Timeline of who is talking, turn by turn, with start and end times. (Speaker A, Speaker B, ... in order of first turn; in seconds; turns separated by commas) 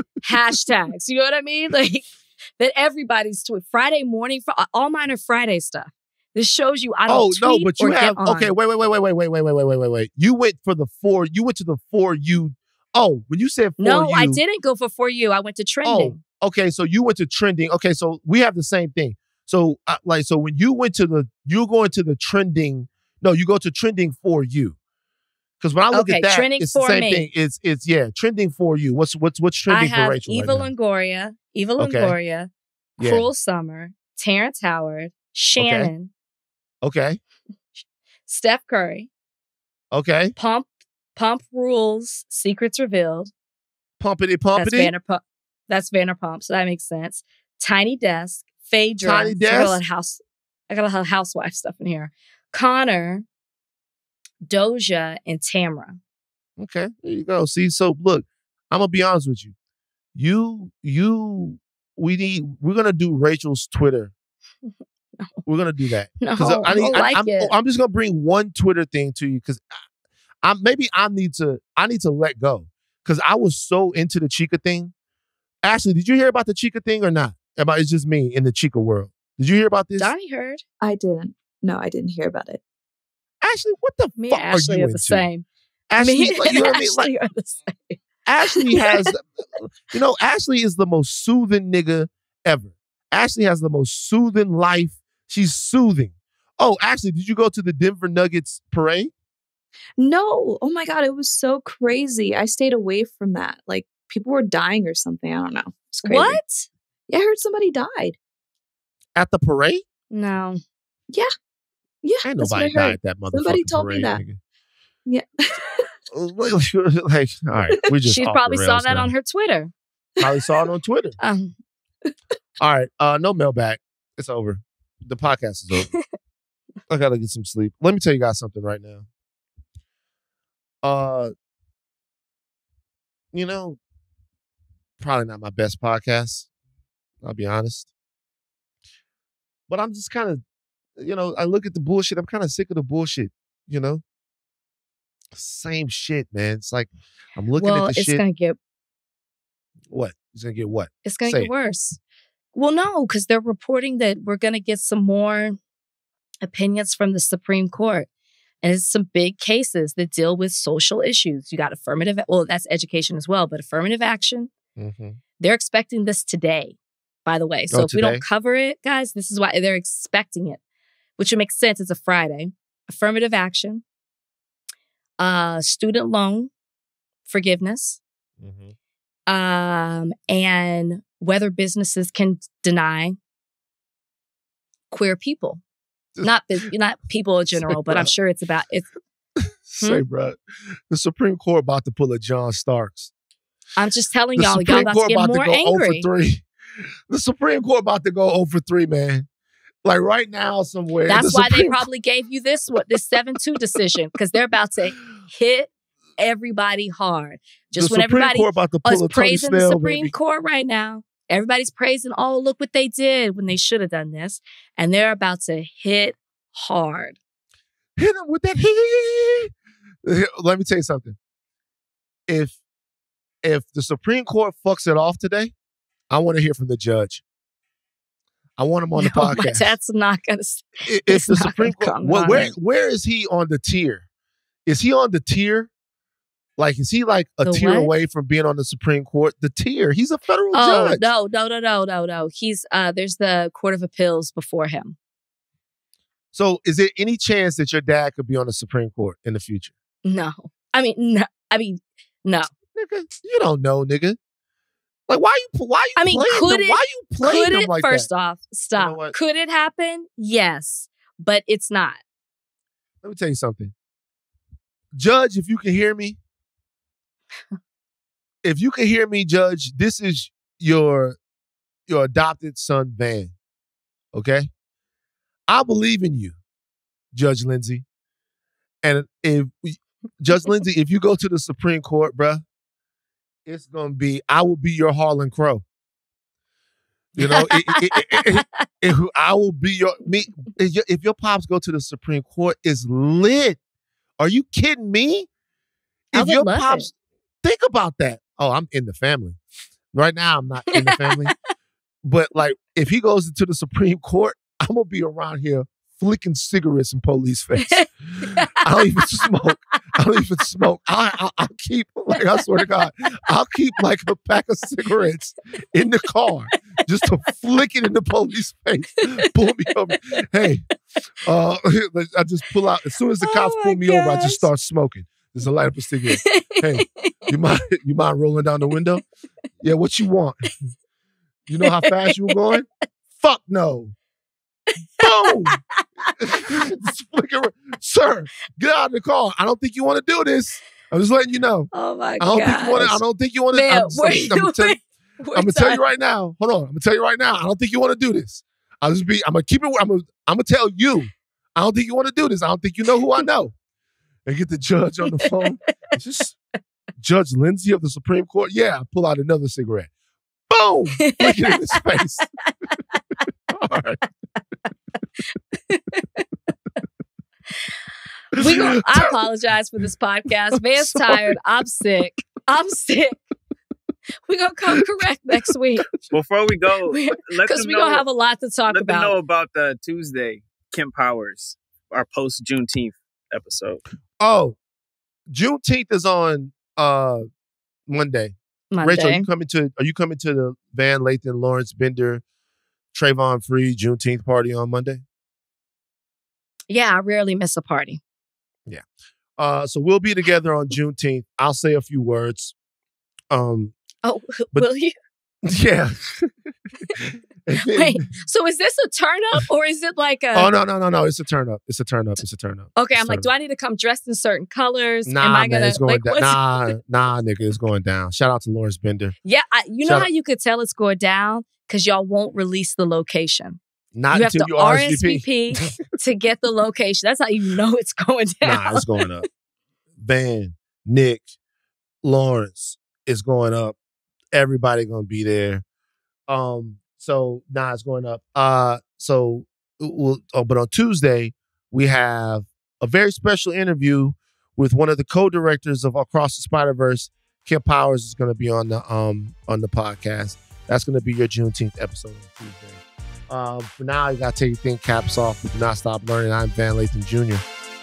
Speaker A: 0.2-8.6, Speaker B: 7.1-14.4, Speaker A: 13.8-16.2, Speaker B: 15.8-24.8, Speaker B: 25.6-30.7, Speaker A: 25.9-27.3, Speaker A: 29.7-36.1, Speaker B: 31.8-32.2, Speaker B: 33.0-33.3, Speaker B: 35.6-35.9, Speaker B: 36.8-37.2, Speaker A: 38.3-39.1, Speaker B: 39.9-40.4, Speaker A: 40.4-43.3, Speaker B: 44.0-44.9, Speaker A: 44.6-53.3, Speaker B: 49.0-49.8, Speaker A: 54.4-56.0, Speaker B: 56.6-59.5, Speaker B: 60.1-64.1, Speaker B: 65.5-69.6, Speaker A: 66.2-67.5, Speaker B: 70.4-74.9, Speaker B: 75.6-80.1, Speaker A: 80.0-80.6, Speaker C: 80.8-82.6, Speaker B: 83.4-85.3, Speaker A: 84.2-85.5, Speaker B: 85.9-87.1, Speaker A: 86.0-89.1, Speaker B: 88.3-99.1, Speaker C: 100.0-106.4, Speaker A: 106.0-106.7, Speaker C: 107.1-108.2, Speaker B: 109.2-109.8, Speaker A: 110.1-110.6, Speaker C: 112.0-114.2, Speaker B: 112.2-114.4, Speaker C: 115.1-115.9, Speaker B: 116.1-119.1, Speaker A: 118.0-119.7, Speaker B: 120.2-121.2, Speaker A: 121.2-121.6, Speaker B: 122.6-125.9, Speaker A: 125.8-126.0, Speaker B: 126.9-129.1, Speaker B: 130.8-131.3, Speaker B: 133.3-133.8, Speaker B: 135.0-136.5, Speaker B: 137.2-137.9, Speaker B: 139.7-140.4, Speaker B: 141.0-144.0, Speaker B: 145.3-148.2, Speaker A: 147.6-148.6, Speaker B: 149.9-151.5, Speaker A: 151.1-152.0, Speaker A: 152.5-155.6, Speaker A: 156.4-158.1, Speaker A: 158.6-164.5, Speaker B: 164.8-165.2, Speaker A: 165.4-170.6, Speaker B: 167.7-168.2, Speaker A: 171.2-173.8, Speaker A: 175.2-176.5, Speaker A: 177.3-178.0, Speaker B: 178.4-178.8, Speaker A: 179.3-183.2, Speaker A: 184.9-185.6, Speaker A: 186.2-188.9, Speaker B: 187.5-188.1, Speaker B: 189.4-190.4, Speaker B: 190.9-193.1, Speaker A: 193.8-196.1, Speaker B: 194.4-196.4, Speaker B: 197.1-199.3, Speaker B: 199.8-201.8, Speaker A: 201.1-217.2, Speaker B: 207.8-210.1, Speaker B: 218.0-219.5, Speaker B: 220.0-221.2, Speaker B: 222.3-222.6, Speaker B: 223.4-225.5, Speaker B: 226.1-227.2, Speaker B: 228.6-229.8, Speaker A: 229.0-232.5, Speaker B: 230.8-234.1, Speaker B: 234.7-235.7, Speaker B: 236.6-241.0, Speaker A: 237.4-237.9, Speaker A: 240.5-245.0, Speaker B: 246.3-249.7, Speaker A: 250.1-252.5, Speaker B: 252.7-254.2, Speaker B: 255.1-258.1, Speaker A: 256.0-262.0, Speaker B: 258.8-259.1, Speaker B: 263.0-263.7, Speaker B: 264.9-266.2, Speaker B: 268.4-271.2, Speaker B: 271.9-273.3, Speaker B: 274.1-274.5, Speaker B: 275.5-276.4, Speaker B: 277.1-277.9, Speaker B: 278.8-282.4, Speaker B: 283.5-285.6, Speaker B: 287.1-293.6, Speaker A: 287.2-288.6, Speaker B: 294.2-295.3, Speaker B: 296.1-296.9, Speaker A: 296.1-296.9, Speaker B: 297.4-299.4, Speaker B: 299.9-301.3, Speaker A: 300.7-301.3, Speaker B: 302.0-320.6, Speaker A: 307.6-309.2, Speaker A: 312.1-312.9, Speaker B: 321.2-329.0, Speaker A: 323.2-324.5, Speaker A: 326.1-327.3, Speaker B: 329.6-330.7, Speaker B: 331.5-333.9, Speaker A: 331.6-332.6, Speaker B: 335.0-335.6, Speaker A: 335.0-336.4, Speaker B: 336.2-344.8, Speaker A: 341.7-345.8, Speaker B: 345.4-353.5, Speaker B: 354.3-356.4, Speaker A: 355.1-355.5, Speaker B: 357.0-359.9, Speaker B: 360.5-362.2, Speaker A: 361.0-363.0, Speaker B: 363.5-364.0, Speaker A: 365.7-366.2, Speaker A: 368.3-373.2, Speaker B: 368.4-369.1, Speaker B: 370.7-371.3, Speaker A: 374.3-375.9, Speaker D: 376.1-378.0, Speaker A: 376.9-379.1, Speaker D: 378.7-383.8, Speaker B: 384.2-384.6, Speaker B: 385.3-387.3, Speaker B: 387.9-392.2, Speaker A: 388.7-389.3, Speaker B: 392.9-395.0, Speaker A: 396.7-398.0, Speaker B: 399.4-402.5, Speaker B: 403.3-403.8, Speaker A: 404.0-404.9, Speaker B: 405.5-406.3, Speaker B: 406.9-408.0, Speaker A: 407.7-410.5, Speaker B: 410.4-413.3, Speaker A: 412.8-416.6, Speaker B: 415.1-419.1, Speaker A: 419.2-423.6, Speaker B: 419.8-420.1, Speaker B: 423.9-425.8, Speaker A: 424.1-429.1, Speaker B: 428.4-429.3, Speaker B: 430.0-431.3, Speaker B: 432.0-433.8, Speaker B: 434.3-435.6, Speaker B: 436.3-457.4